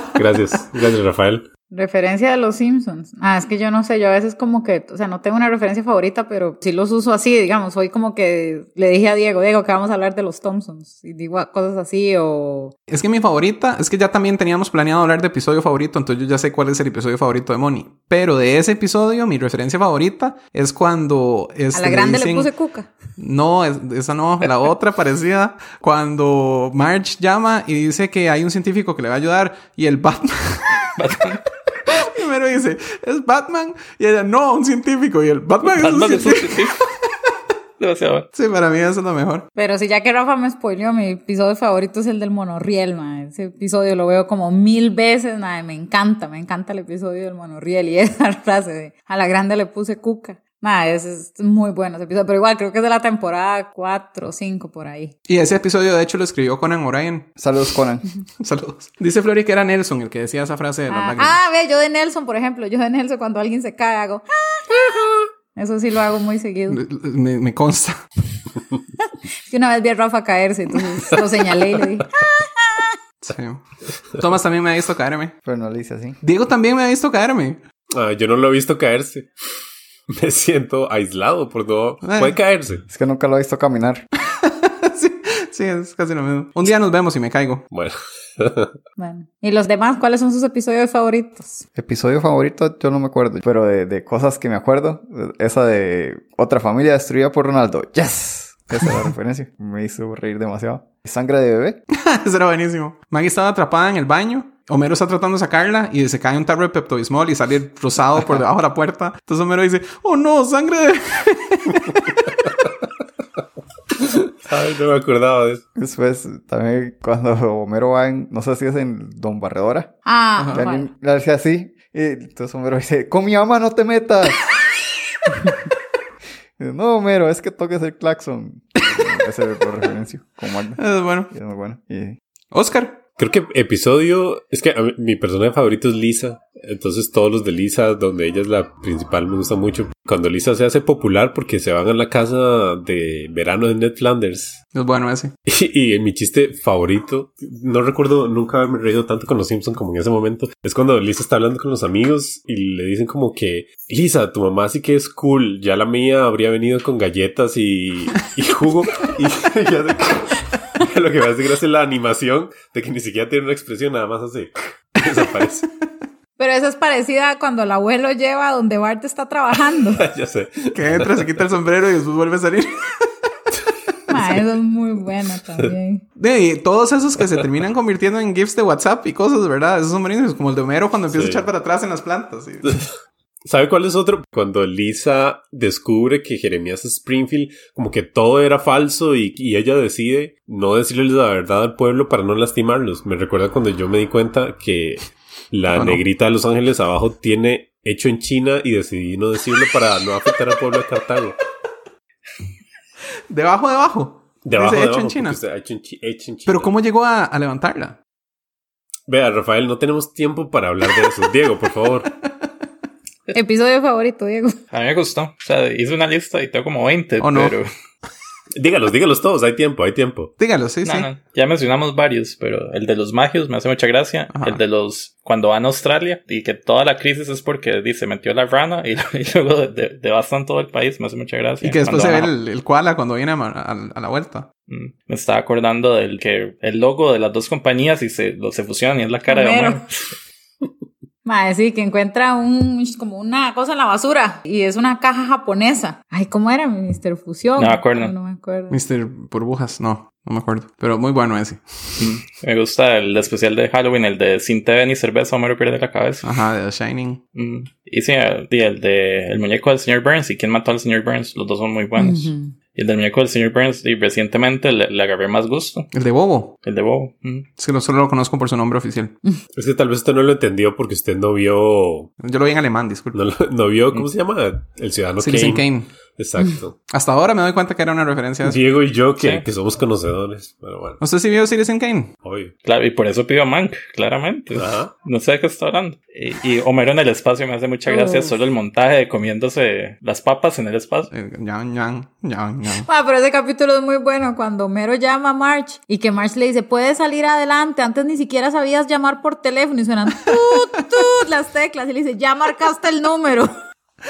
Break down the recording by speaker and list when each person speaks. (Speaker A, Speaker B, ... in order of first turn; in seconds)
Speaker A: 0.1-1.4, 77.9-79.3, 80.1-82.8, 87.7-88.7, 114.0-115.6, 133.2-144.6, 145.5-165.7, 169.9-171.3, 181.1-181.5, 183.4-201.3, 204.4-206.7, 209.1-212.1, 218.6-220.3, 269.6-272.1, 273.1-276.8, 278.4-281.0, 282.2-282.5, 284.6-284.9
Speaker B: 1.7-12.7, 21.7-22.9, 39.6-55.1, 60.9-66.8, 69.5-72.9, 89.0-91.6, 120.0-120.9, 166.4-170.0, 174.1-176.0, 213.3-214.6, 239.3-239.8, 241.2-248.8, 262.0-262.5, 287.9-288.3, 292.9-303.5
Speaker C: 12.9-22.5, 23.2-30.9, 31.9-36.7, 38.3-39.5, 55.3-57.3, 58.4-61.4, 66.7-68.0, 73.2-73.6, 74.2-75.3, 76.2-77.6, 82.0-82.4, 84.4-87.6, 102.0-112.2, 120.4-120.6, 130.8-131.3, 132.5-133.0, 144.7-145.3, 170.7-172.9, 176.2-182.9, 195.7-196.0, 203.3-205.4, 206.5-208.0, 217.2-217.6, 220.4-221.1, 224.3-224.6, 231.6-234.5, 248.7-252.2, 256.2-257.2, 265.9-266.6, 267.6-269.2, 272.2-273.2, 275.2-275.9, 276.9-278.6, 281.0-282.1, 291.1-292.9
Speaker D: 31.0-31.4, 35.6-36.8, 37.8-38.3, 214.7-217.7, 220.8-232.3, 234.7-239.9, 247.6-248.1, 252.0-256.3, 257.4-265.9, 266.6-267.5, 279.2-279.4, 282.6-291.1
Speaker E: 57.4-58.0, 75.4-76.2, 82.9-84.1, 91.8-101.8, 115.8-119.9, 120.5-124.4, 126.6-132.2